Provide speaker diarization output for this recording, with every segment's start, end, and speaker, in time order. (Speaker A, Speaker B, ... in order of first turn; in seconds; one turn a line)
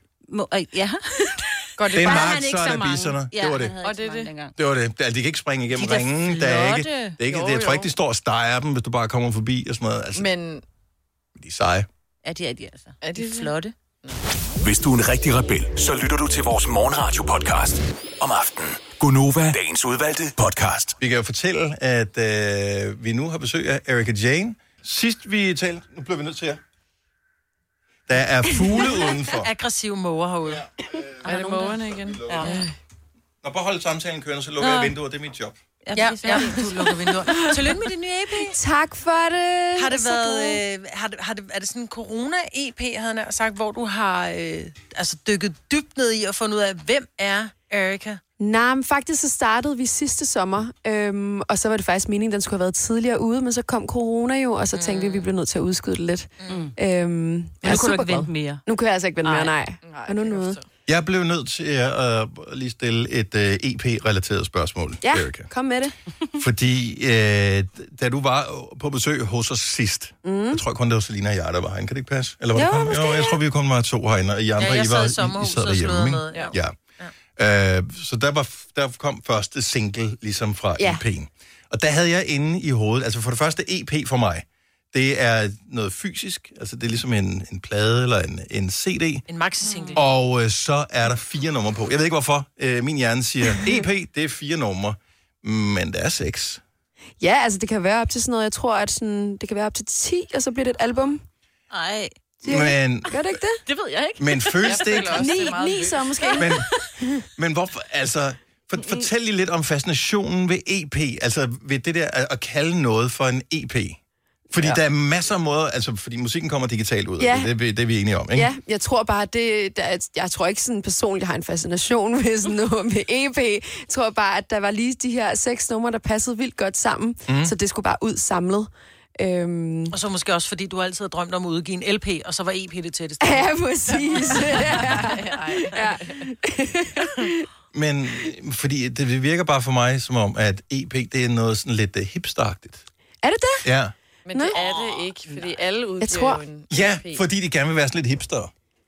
Speaker A: 0.3-4.5
Speaker B: 1.8-2.4
Speaker C: 1.9-3.7
Speaker B: 3.8-4.3
Speaker C: 4.6-10.3
Speaker A: 5.7-7.2
Speaker B: 7.3-7.9
Speaker B: 10.2-10.6
Speaker C: 11.4-11.9
Speaker A: 12.2-13.7
Speaker B: 13.0-14.2
Speaker D: 14.6-20.9
Speaker C: 21.0-26.6
Speaker C: 28.1-29.5
Speaker E: 29.3-30.7
Speaker C: 30.6-31.1
Speaker B: 31.2-32.8
Speaker A: 31.3-31.8
Speaker C: 32.0-32.4
Speaker C: 33.4-35.6
Speaker A: 34.6-34.9
Speaker A: 35.9-36.9
Speaker E: 36.0-38.6
Speaker F: 38.5-40.6
Speaker E: 39.8-48.2
Speaker F: 48.4-60.6
Speaker E: 54.7-55.3
Speaker A: 56.5-56.7
Speaker A: 57.6-58.6
Speaker B: 59.3-60.7
Speaker C: 60.9-65.5
Speaker F: 65.0-66.0
Speaker C: 66.4-76.8
Speaker F: 70.2-70.6
Speaker F: 72.5-73.4
Speaker E: 74.6-77.1
Speaker C: 77.4-89.2
Speaker F: 80.8-81.0
Speaker E: 89.3-90.0
Speaker A: 89.6-90.0
Speaker C: 90.0-96.6
Speaker F: 97.2-101.2
Speaker A: 101.7-102.2
Speaker C: 102.5-103.1
Speaker F: 102.5-103.6
Speaker A: 103.7-105.0
Speaker C: 104.2-105.3
Speaker B: 104.6-106.5
Speaker F: 105.2-107.3
Speaker C: 106.3-106.7
Speaker C: 107.4-114.0
Speaker C: 114.5-118.5
Speaker F: 117.2-117.5
Speaker F: 118.3-129.9
Speaker C: 127.3-127.5
Speaker E: 129.9-133.7
Speaker F: 133.2-137.5
Speaker B: 133.9-136.3
Speaker C: 137.7-142.8
Speaker F: 143.2-143.7
Speaker C: 143.7-143.9
Speaker B: 144.3-147.2
Speaker F: 146.0-146.4
Speaker C: 146.7-148.5